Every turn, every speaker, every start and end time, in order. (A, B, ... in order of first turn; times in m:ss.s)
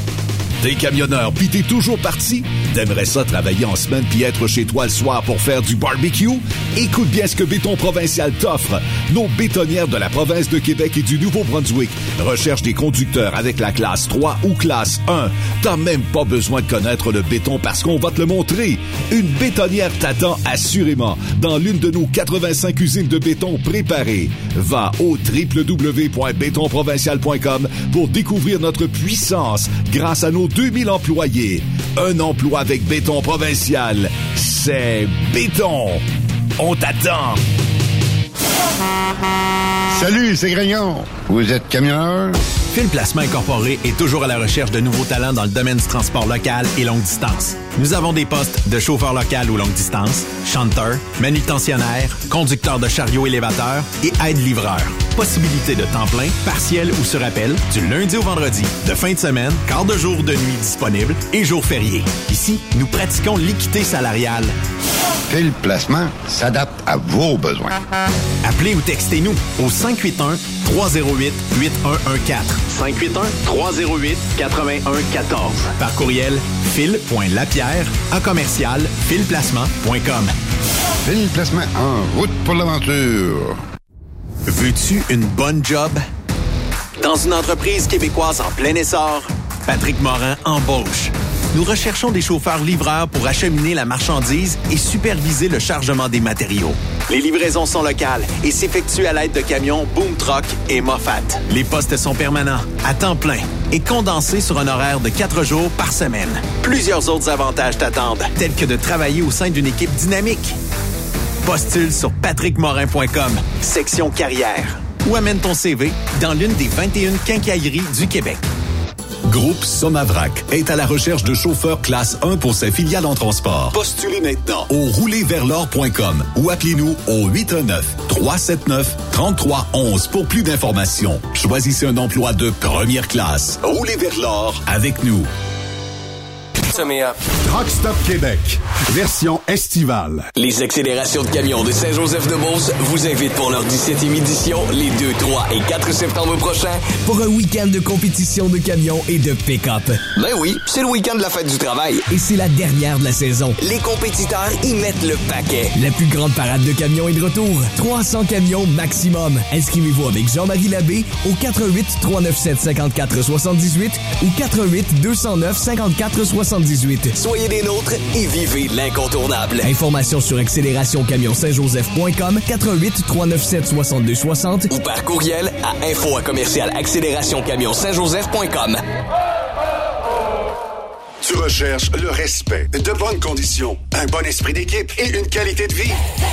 0:00.6-0:36.0 A
0:36.6-0:37.4 A
0:39.9-0:42.4 B
0:42.7-1:04.6 C
1:05.3-1:07.8 B
1:08.4-1:20.3 C
1:21.0-1:23.6 B
1:24.5-1:26.0 C
1:27.0-1:50.6 C
1:51.4-1:58.4 C
1:59.3-2:15.3 A
2:16.7-2:17.2 D
2:17.4-2:20.3 E
2:20.4-2:26.8 D
2:27.0-2:30.0 F
2:30.2-2:32.1 D
2:32.1-2:33.6 F
2:33.6-2:35.8 D
2:35.8-2:47.1 F
2:47.2-2:49.7 D
2:49.6-2:54.7 F
2:54.7-2:58.8 D
3:01.2-3:06.0 E